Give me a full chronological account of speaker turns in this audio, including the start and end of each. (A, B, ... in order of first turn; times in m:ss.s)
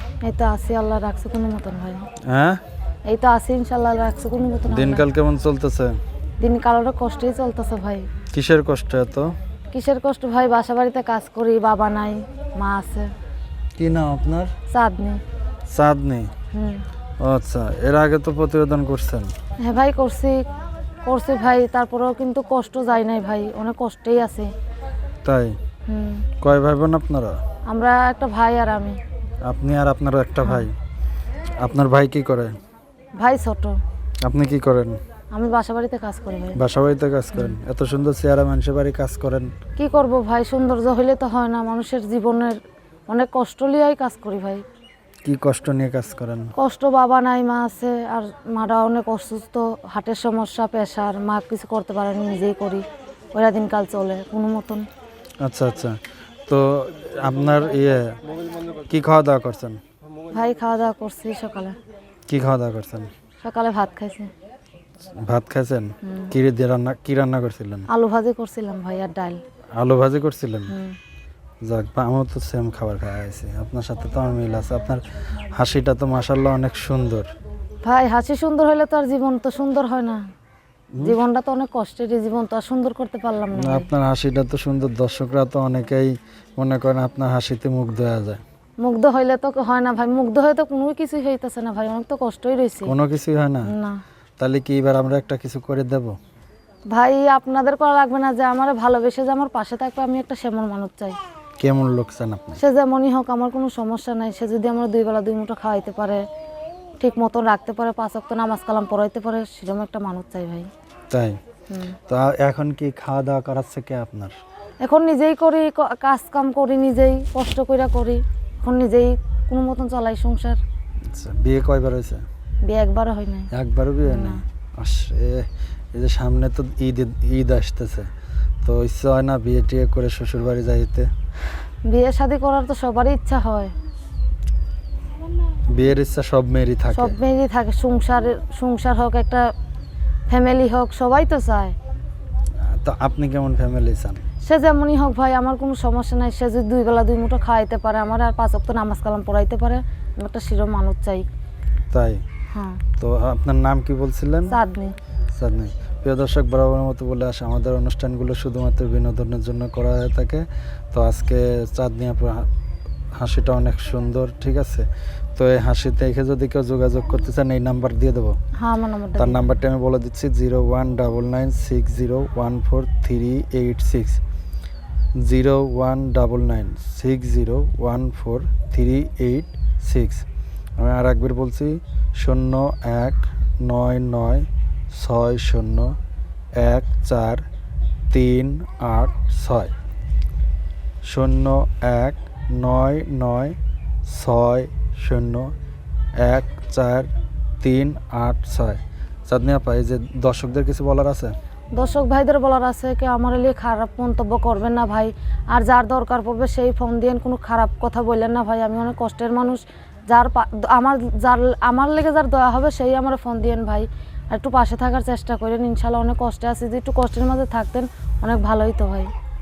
0:00.2-0:02.1 A
0:02.2-0:02.6 B
0:03.1-0:05.0 A
0:04.7-0:06.0 B
0:06.4-0:08.1 A
0:08.3-0:09.3 B
0:09.7-0:13.1 A
0:13.8-0:14.6 B
0:14.7-0:15.2 A
0:15.7-0:16.3 B
0:16.5-0:16.8 A
0:17.2-0:19.3 B
0:19.6-0:20.4 A
0:21.0-0:24.5 A
0:25.2-0:25.6 B
0:25.9-0:26.3 A
0:26.4-0:27.4 B
0:27.7-0:29.0 A
0:29.4-0:30.8 B
0:31.6-0:32.6 B
0:33.2-0:33.8 A
0:34.2-0:35.0 B
0:35.3-0:36.6 A
0:36.6-0:39.5 B
0:39.8-0:42.6 A
0:43.1-0:44.6 A
0:45.2-0:46.5 B
0:46.6-0:54.9 A
0:55.4-0:58.2 B
0:58.9-0:59.8 B
1:00.3-1:01.8 A
1:02.3-1:03.1 B
1:03.4-1:04.3 A
1:05.1-1:07.9 B
1:07.9-1:09.4 A
1:09.8-1:10.7 B
1:10.7-1:11.0 A
1:11.6-1:17.3 B
1:17.8-1:20.2 A
1:21.0-1:23.9 A
1:23.6-1:28.4 B
1:28.8-1:32.9 A
1:32.8-1:33.7 B
1:33.7-1:34.0 A
1:34.4-1:36.2 B
1:36.9-1:41.2 A
1:41.6-1:42.6 B
1:42.6-1:46.2 A
1:47.0-1:50.7 A
1:51.1-1:51.4 B
1:51.7-1:52.0 A
1:52.1-1:54.4 B
1:54.8-2:00.6 A
2:01.1-2:02.2 B
2:02.6-2:03.5 A
2:03.5-2:08.1 B
2:04.0-2:04.4 A
2:08.6-2:11.1 B
2:11.9-2:13.7 A
2:15.7-2:17.2 B
2:16.9-2:19.5 A
2:20.3-2:21.8 A
2:22.6-2:24.2 B
2:24.4-2:31.3 A
2:31.9-2:32.2 B
2:32.5-2:32.8 A
2:33.0-2:34.6 B
2:34.5-2:35.0 A
2:35.3-2:42.5 B
2:43.2-2:48.4 B
2:48.6-2:49.5 A
2:49.2-2:54.2 B
2:55.2-3:00.2 B
3:00.8-3:06.0 B
3:06.6-3:07.4 B
3:08.1-3:09.7 B
3:11.0-3:15.5 B
3:16.2-3:17.1 B
3:17.6-3:21.3 B
3:21.8-3:39.1 A